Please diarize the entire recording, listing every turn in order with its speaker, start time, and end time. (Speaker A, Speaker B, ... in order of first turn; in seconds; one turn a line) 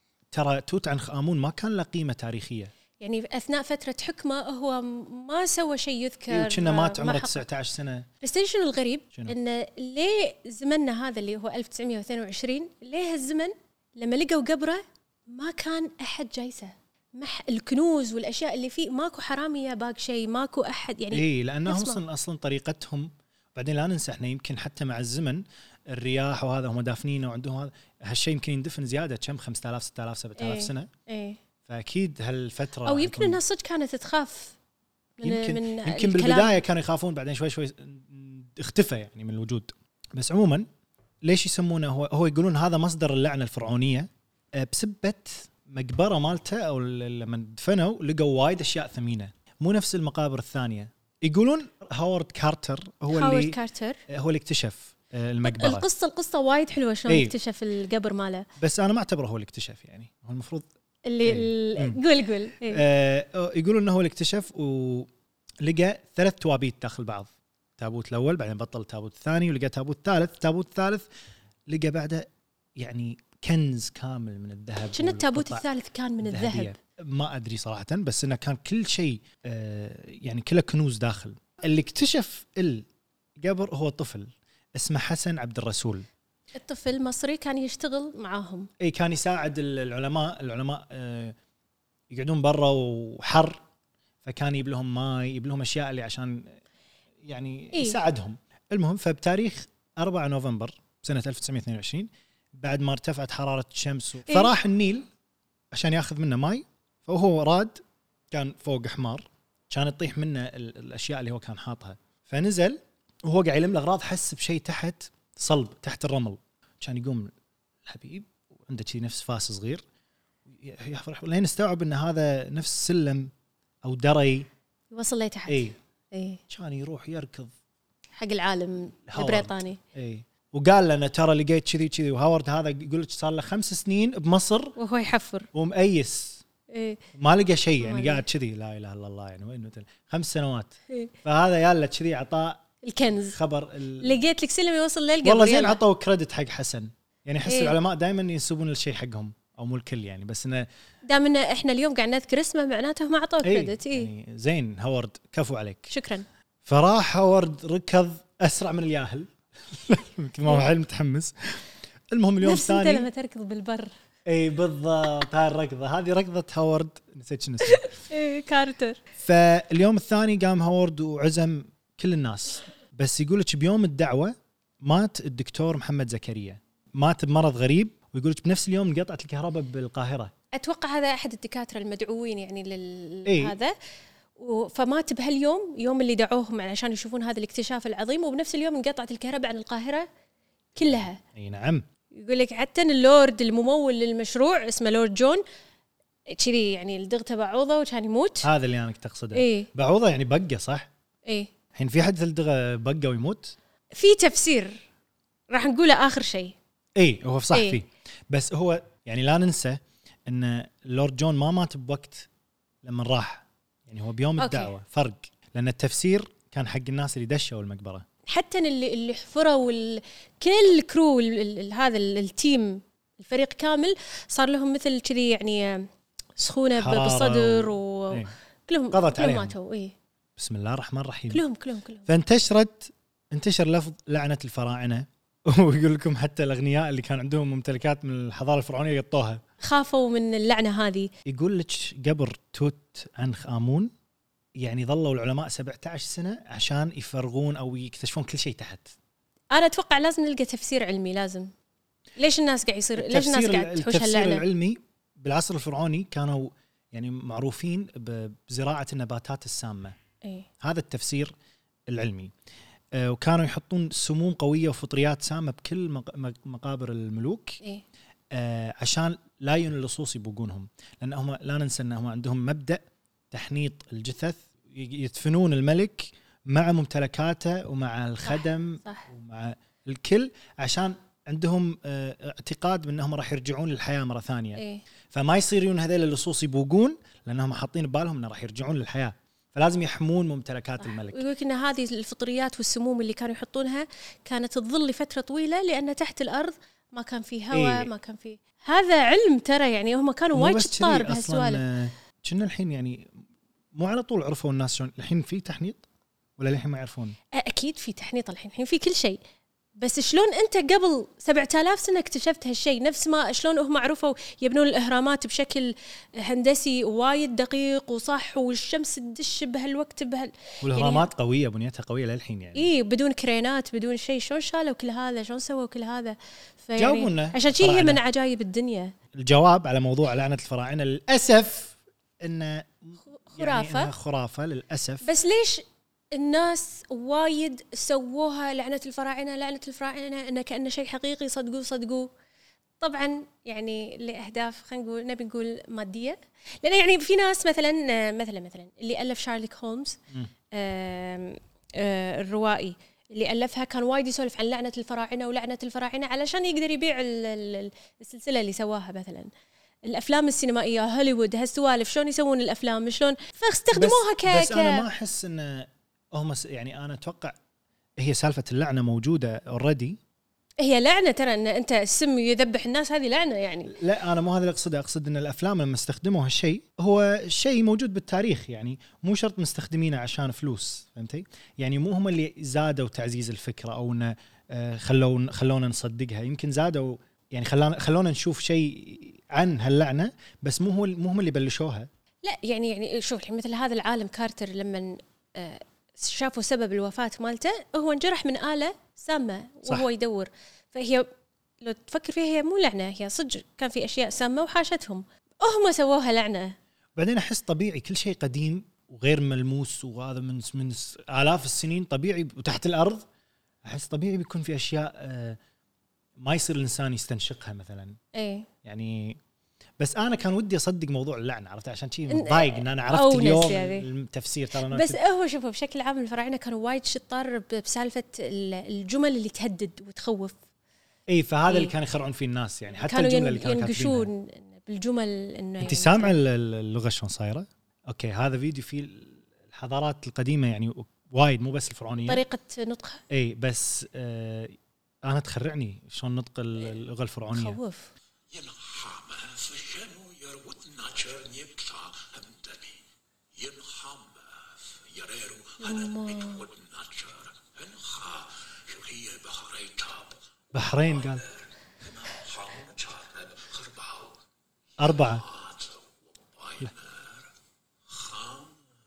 Speaker A: 0.3-2.7
Speaker B: 3.0-7.4
Speaker A: 6.3-8.1
Speaker B: 8.2-22.0
Speaker A: 21.1-30.9
Speaker B: 30.4-31.4
Speaker A: 31.6-33.4
Speaker B: 32.8-34.5
Speaker B: 35.2-36.5
Speaker A: 35.2-40.7
Speaker A: 41.2-53.5
Speaker B: 53.1-54.0
Speaker A: 54.1-55.9
Speaker B: 55.4-58.5
Speaker A: 57.1-57.3
Speaker A: 58.6-60.7
Speaker B: 61.0-62.8
Speaker A: 61.2-62.0
Speaker A: 62.7-65.1
Speaker A: 65.6-71.1
Speaker A: 71.7-75.7
Speaker B: 74.9-76.7
Speaker A: 76.2-82.8
Speaker A: 83.4-86.0
Speaker B: 86.5-88.7
Speaker A: 88.8-91.3
Speaker A: 92.1-93.6
Speaker A: 94.2-96.6
Speaker A: 97.2-105.1
Speaker B: 97.7-98.0
Speaker B: 104.3-104.5
Speaker A: 105.7-107.8
Speaker A: 108.3-117.3
Speaker A: 117.8-119.8
Speaker A: 120.5-123.3
Speaker A: 123.8-124.5
Speaker B: 124.9-126.4
Speaker A: 125.5-125.8
Speaker A: 126.5-127.5
Speaker B: 128.2-129.8
Speaker A: 129.1-134.7
Speaker B: 134.8-135.5
Speaker A: 135.5-136.4
Speaker B: 136.7-137.0
Speaker A: 137.1-142.6
Speaker B: 137.8-138.2
Speaker B: 142.8-143.4
Speaker A: 143.2-144.2
Speaker B: 144.0-145.8
Speaker A: 145.2-150.7
Speaker B: 147.4-147.7
Speaker B: 151.1-154.1
Speaker A: 153.4-155.9
Speaker B: 155.9-156.2
Speaker A: 156.7-163.1
Speaker B: 162.4-163.9
Speaker A: 164.2-167.9
Speaker B: 167.6-169.0
Speaker A: 169.2-180.3
Speaker B: 180.5-183.7
Speaker A: 183.2-183.5
Speaker B: 184.3-190.1
Speaker B: 190.8-191.2
Speaker A: 190.8-191.8
Speaker B: 192.1-195.4
Speaker B: 196.3-198.5
Speaker A: 198.4-200.9
Speaker B: 199.3-199.7
Speaker A: 201.7-203.6
Speaker B: 203.9-204.8
Speaker B: 205.5-206.6
Speaker A: 206.9-212.3
Speaker B: 207.5-207.8
Speaker A: 212.8-218.0
Speaker B: 214.4-214.7
Speaker B: 218.3-229.9
Speaker A: 226.8-228.3
Speaker A: 228.9-229.5
Speaker A: 230.4-231.4
Speaker B: 231.3-232.1
Speaker A: 232.1-239.4
Speaker B: 239.6-241.1
Speaker A: 241.2-243.9
Speaker A: 244.6-248.9
Speaker B: 249.5-251.5
Speaker B: 252.2-254.4
Speaker A: 252.9-259.9
Speaker A: 260.6-261.3
Speaker A: 261.9-262.3
Speaker A: 262.9-267.6
Speaker A: 268.3-291.2
Speaker B: 278.2-279.1
Speaker B: 284.6-284.8
Speaker B: 290.8-301.6
Speaker A: 297.5-297.9
Speaker A: 300.3-303.1
Speaker A: 303.7-305.8
Speaker A: 306.4-307.1
Speaker B: 307.3-309.2
Speaker B: 309.8-321.1
Speaker A: 320.6-322.7
Speaker B: 322.5-328.9
Speaker A: 326.8-328.0
Speaker A: 329.1-335.1
Speaker B: 333.1-333.9
Speaker B: 335.0-342.1
Speaker B: 342.8-350.0
Speaker B: 350.5-359.3
Speaker B: 359.9-364.9
Speaker A: 363.7-367.4
Speaker A: 368.0-370.0
Speaker B: 370.6-373.7
Speaker A: 373.7-391.9
Speaker B: 392.2-401.1
Speaker B: 401.6-406.5
Speaker A: 406.9-413.0
Speaker A: 413.6-415.4
Speaker A: 416.2-418.0
Speaker B: 418.1-418.5
Speaker A: 418.6-419.2
Speaker A: 419.8-425.0
Speaker B: 422.1-423.9
Speaker B: 424.6-430.4
Speaker A: 431.1-434.1
Speaker B: 431.5-431.7
Speaker B: 432.8-436.1
Speaker A: 435.6-442.2
Speaker B: 442.0-443.0
Speaker A: 443.1-447.6
Speaker B: 447.3-447.9
Speaker C: 448.3-452.8
Speaker C: 453.3-460.1
Speaker B: 455.6-456.4
Speaker A: 460.5-461.2
Speaker C: 461.9-464.1
Speaker A: 464.8-465.2
Speaker C: 465.2-465.8
Speaker C: 466.3-467.2
Speaker C: 467.9-468.6